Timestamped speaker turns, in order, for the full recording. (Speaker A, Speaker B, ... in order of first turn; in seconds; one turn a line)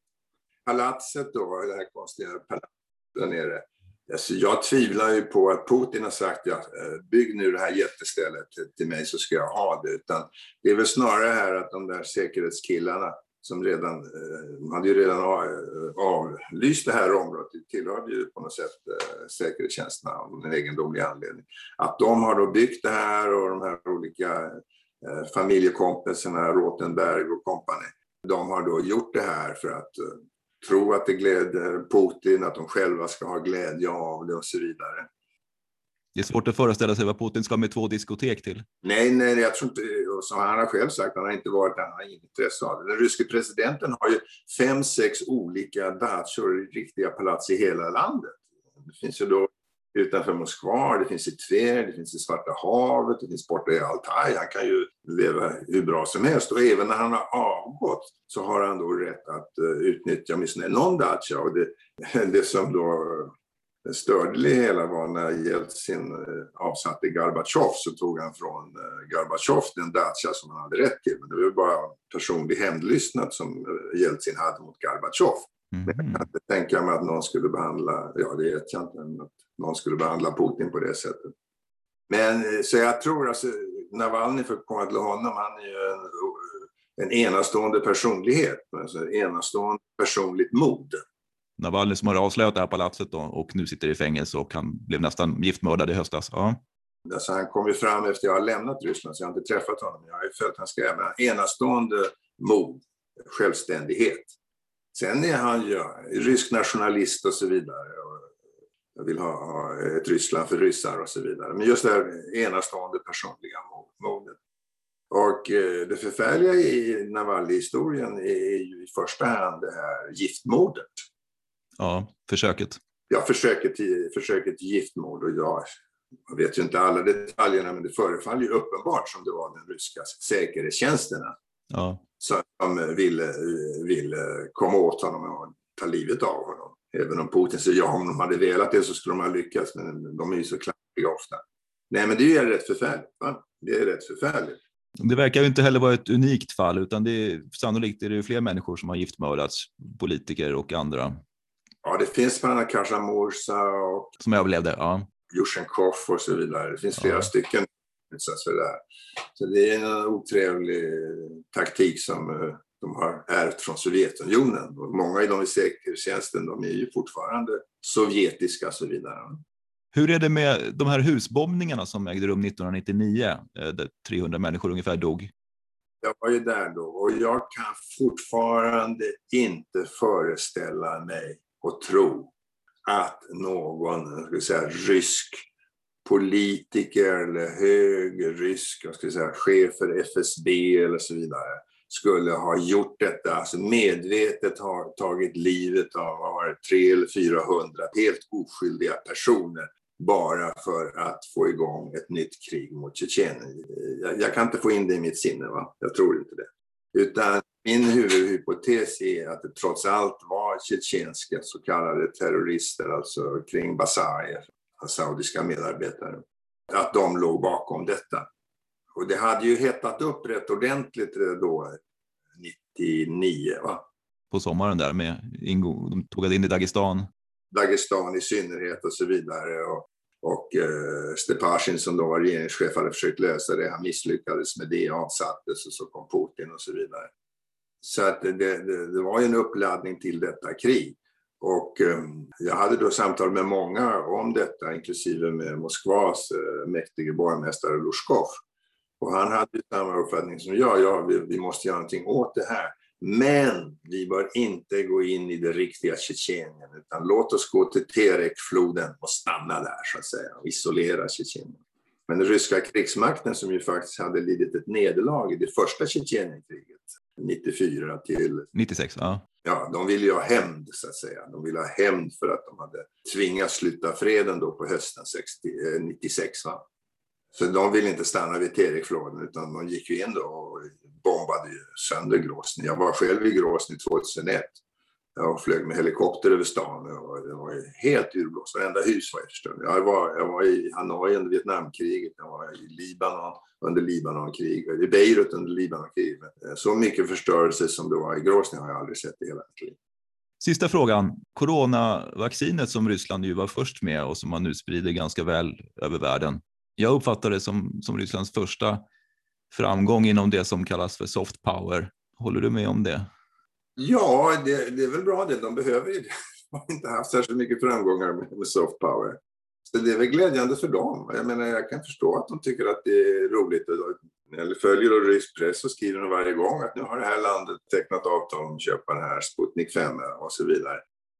Speaker A: 0.7-35.1
Speaker B: 36.1-38.6
Speaker A: 38.8-63.3
Speaker A: 63.8-81.3
Speaker B: 75.7-76.2
Speaker A: 82.1-91.0
Speaker B: 91.6-96.6
Speaker A: 97.0-104.3
Speaker A: 104.9-108.3
Speaker A: 108.9-114.4
Speaker A: 115.1-121.0
Speaker B: 121.8-122.8
Speaker A: 123.1-125.7
Speaker A: 126.3-131.3
Speaker B: 131.7-132.0
Speaker A: 132.2-144.6
Speaker B: 145.0-151.2
Speaker A: 151.8-154.1
Speaker B: 154.2-155.1
Speaker A: 155.3-158.8
Speaker B: 157.0-157.3
Speaker A: 159.3-169.4
Speaker B: 169.9-175.3
Speaker A: 176.0-182.3
Speaker A: 182.8-185.4
Speaker A: 186.0-218.3
Speaker A: 218.9-221.8
Speaker A: 222.3-223.9
Speaker B: 224.3-227.1
Speaker A: 227.5-237.1
Speaker A: 237.8-248.4
Speaker A: 249.0-268.5
Speaker B: 268.5-269.2
Speaker A: 269.4-276.6
Speaker A: 277.3-284.6
Speaker A: 285.1-299.8
Speaker B: 300.4-308.8
Speaker B: 309.5-313.1
Speaker A: 313.8-330.8